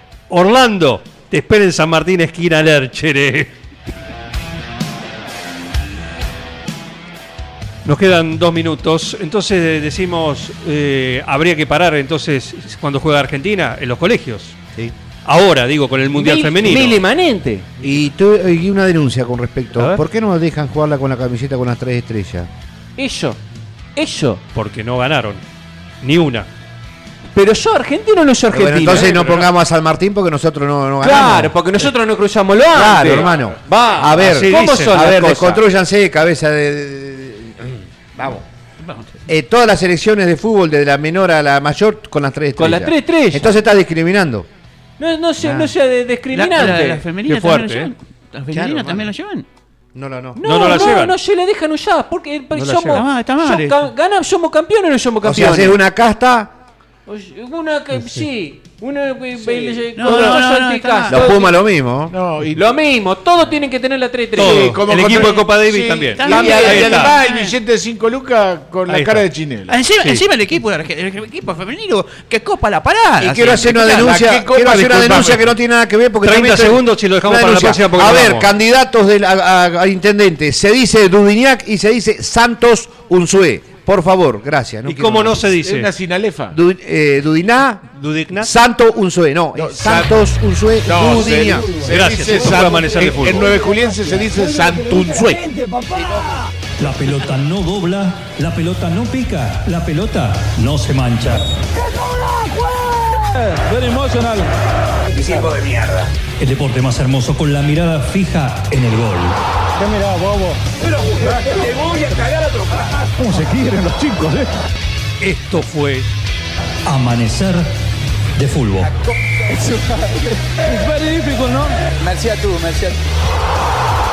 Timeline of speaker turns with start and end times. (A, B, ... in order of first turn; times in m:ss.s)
0:00.3-0:03.5 A
0:07.8-0:14.6 A
0:15.2-0:17.0 A
0:16.1-0:17.7 B
0:17.8-0:22.5 C
0:23.0-0:23.4 B
0:24.0-0:24.4 B
0:24.5-0:25.4 A
0:26.0-0:26.5 A
0:27.4-0:29.2 B
0:28.5-0:31.6 C
0:29.1-0:29.4 D
0:31.0-0:35.6 B
0:32.7-0:38.5 C
0:34.1-0:35.0 A
0:38.8-0:39.2 E
0:39.3-0:44.5 C
0:42.6-0:43.5 B
0:45.0-0:47.0 B
0:45.4-0:45.7 C
0:46.3-0:49.5 E
0:47.3-0:47.9 A
0:48.5-0:49.1 C
0:49.9-0:50.4 C
0:50.4-0:55.8 B
0:50.4-0:51.2 A
0:52.5-0:53.0 A
0:52.9-0:53.9 E
0:55.2-0:56.5 C
0:57.1-1:01.5 B
0:57.9-0:58.3 A
1:00.0-1:01.4 E
1:01.1-1:02.2 C
1:02.1-1:02.7 D
1:02.5-1:04.8 B
1:04.4-1:07.2 A
1:04.4-1:09.8 D
1:05.7-1:07.6 E
1:08.9-1:09.3 A
1:09.7-1:14.3 E
1:13.2-1:25.4 C
1:14.1-1:15.5 D
1:16.2-1:18.5 A
1:24.8-1:25.9 A
1:25.5-1:26.6 D
1:26.5-1:31.8 C
1:27.9-1:28.5 A
1:29.6-1:30.3 D
1:30.8-1:35.4 D
1:31.9-1:33.6 A
1:33.5-1:36.5 F
1:36.8-1:41.4 G
1:41.3-1:46.0 F
1:46.4-1:49.4 G
1:49.8-1:54.6 F
1:55.2-1:56.1 A
1:56.9-1:57.7 G
1:58.4-1:58.9 G
1:58.9-2:03.0 F